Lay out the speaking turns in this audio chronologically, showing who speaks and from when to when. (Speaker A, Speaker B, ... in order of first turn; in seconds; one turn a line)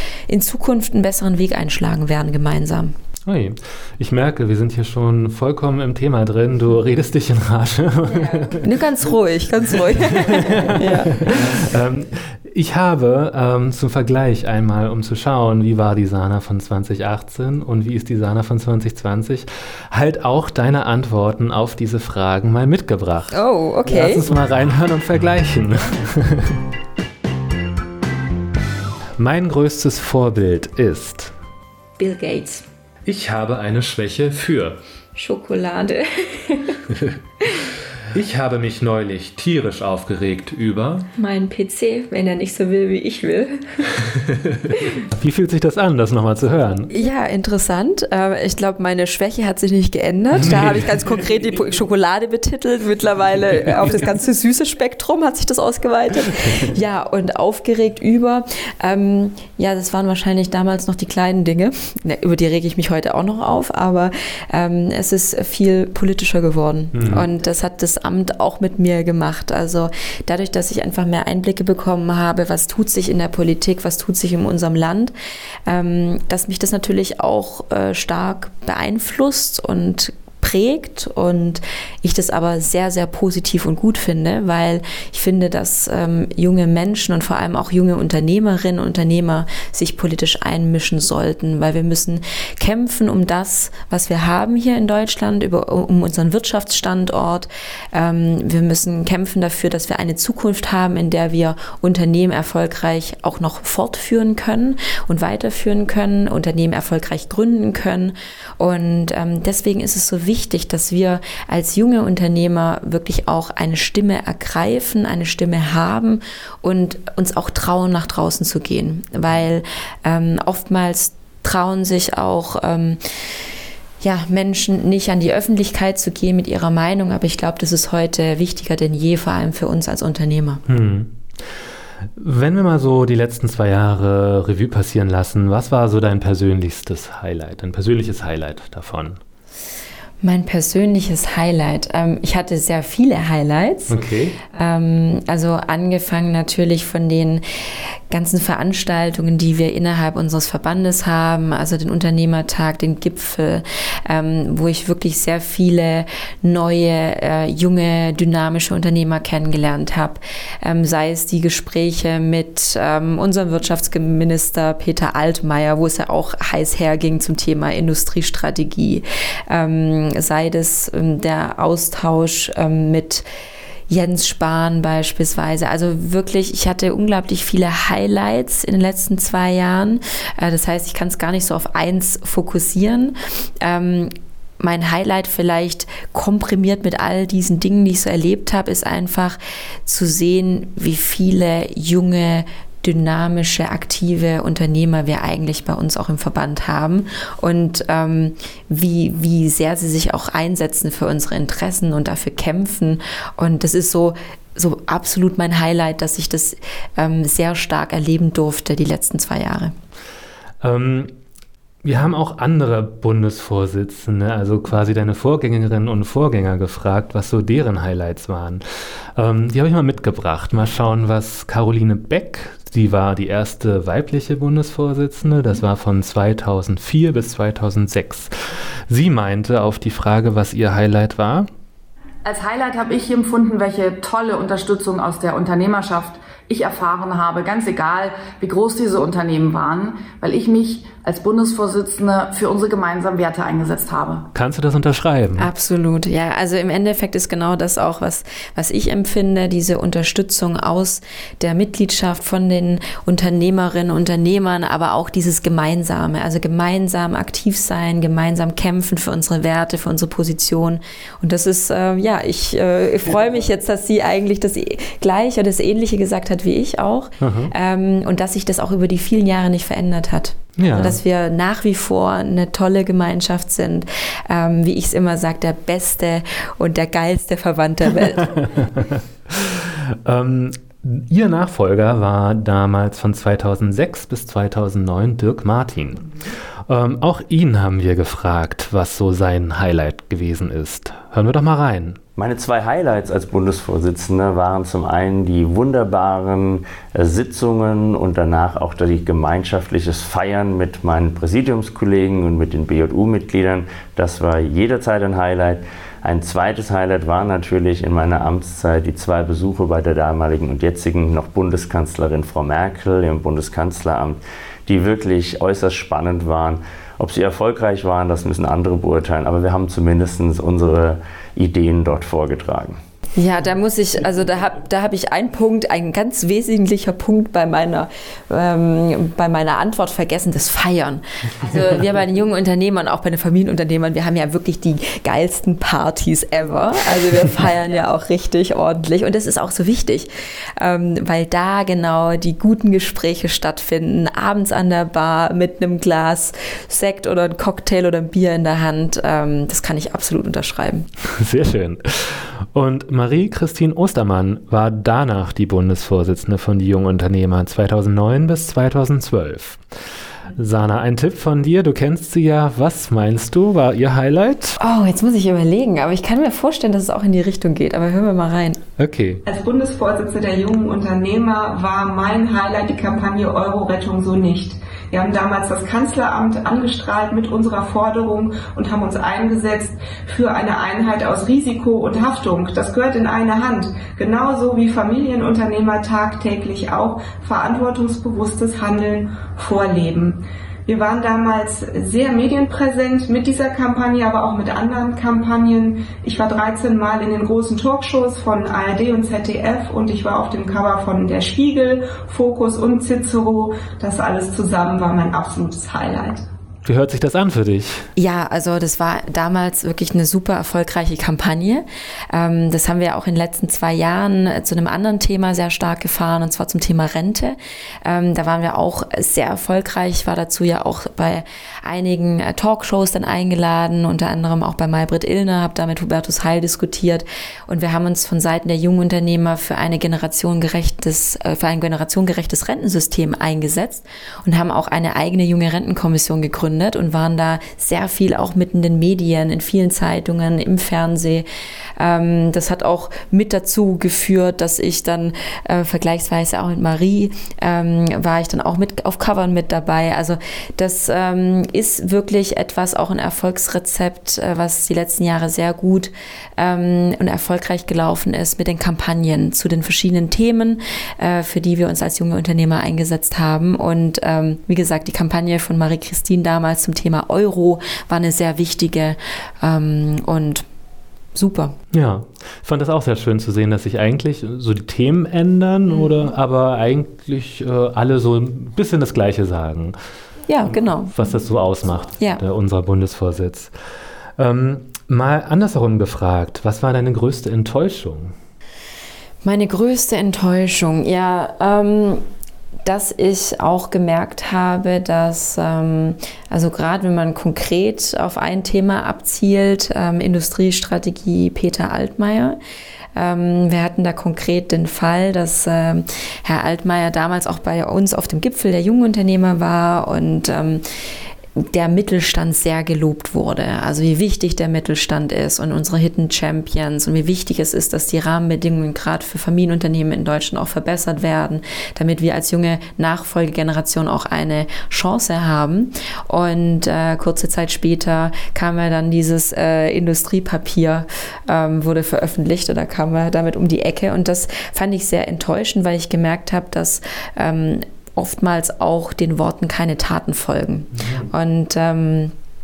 Speaker A: 0.3-2.9
Speaker B: 3.2-8.7
Speaker A: 8.5-11.6
Speaker B: 9.8-26.6
Speaker A: 23.3-24.2
Speaker B: 29.2-31.3
Speaker A: 32.0-32.6
Speaker B: 33.0-34.8
Speaker A: 35.1-36.8
Speaker B: 38.1-41.1
Speaker A: 41.1-43.8
Speaker B: 44.4-46.9
Speaker A: 46.9-75.1
Speaker B: 50.4-50.9
Speaker B: 66.9-67.2
Speaker A: 75.7-123.0
Speaker A: 124.0-130.6
Speaker B: 130.7-131.2
Speaker B: 132.2-139.2
Speaker A: 140.2-147.4
Speaker B: 143.9-144.4
Speaker A: 148.1-173.2
Speaker A: 173.9-209.7
Speaker B: 210.6-211.1
Speaker B: 211.8-218.6
Speaker B: 219.1-228.3
Speaker B: 228.9-231.5
Speaker C: 232.2-244.3
Speaker B: 244.3-245.5
Speaker A: 245.4-278.4
Speaker B: 267.2-267.5
Speaker B: 270.6-271.0
Speaker B: 278.4-286.1
Speaker B: 286.7-292.0
Speaker D: 292.2-322.8
Speaker A: 323.1-350.9
Speaker B: 351.1-359.6
Speaker B: 360.4-364.6
Speaker A: 364.6-368.6
Speaker B: 368.8-369.2
Speaker E: 369.2-406.2
Speaker B: 406.6-407.9
Speaker A: 408.0-441.2
Speaker A: 441.8-470.4
Speaker A: 471.1-471.6
Speaker B: 471.7-479.8
Speaker A: 480.3-480.9
Speaker B: 480.9-483.5
Speaker B: 484.2-488.1
Speaker A: 489.2-492.0
Speaker A: 492.6-502.4
Speaker A: 502.9-510.6
Speaker A: 511.4-542.1
Speaker B: 540.8-541.1